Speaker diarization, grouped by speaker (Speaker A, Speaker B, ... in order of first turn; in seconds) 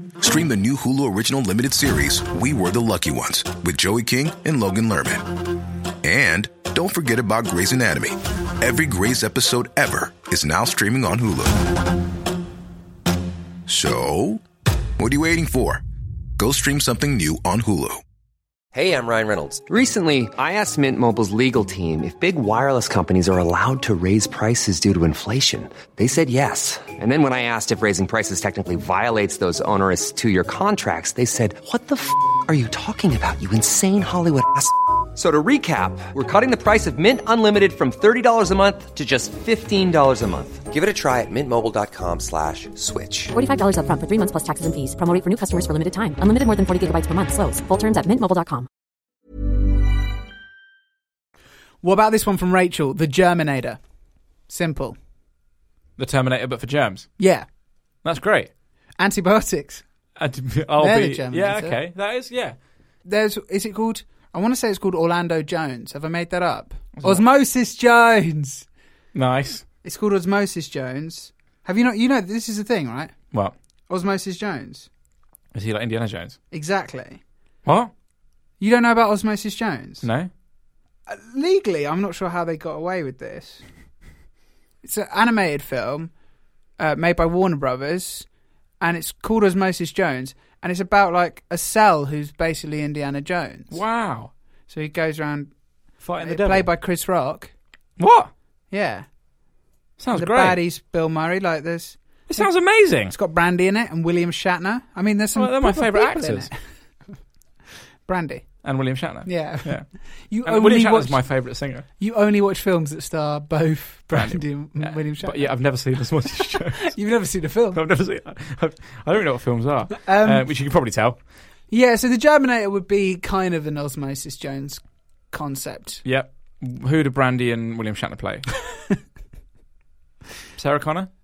Speaker A: 0.2-5.5, 6.0-11.7, 13.7-14.4, 15.0-15.8, 16.4-18.0
Speaker B: 18.7-43.3
Speaker C: 43.3-48.7
Speaker D: 51.8-53.8, 54.5-55.0, 57.2-57.5, 59.0-59.9, 60.8-61.8, 63.0-68.7, 69.8-73.1, 73.9-74.9, 76.5-77.2, 78.6-80.1, 81.1-83.7, 84.8-86.1, 86.8-88.3, 88.8-93.8, 94.7-95.5, 96.2-97.5, 98.7-99.1, 100.1-102.5, 103.1-106.5, 108.1-108.5, 109.3-111.2, 112.0-115.5, 116.3-117.8, 120.0-120.5, 121.7-126.0
Speaker E: 56.0-57.1, 58.0-58.5, 60.2-62.6, 66.9-67.2, 69.1-69.7, 75.5-76.4, 77.7-77.9, 80.0-80.3, 93.7-94.3, 96.0-96.7, 98.0-98.3, 100.0-100.6, 102.3-103.1, 105.3-106.5, 108.6-109.9, 110.4-111.9, 114.1-117.0, 117.7-121.2, 126.0-128.5, 130.6-131.1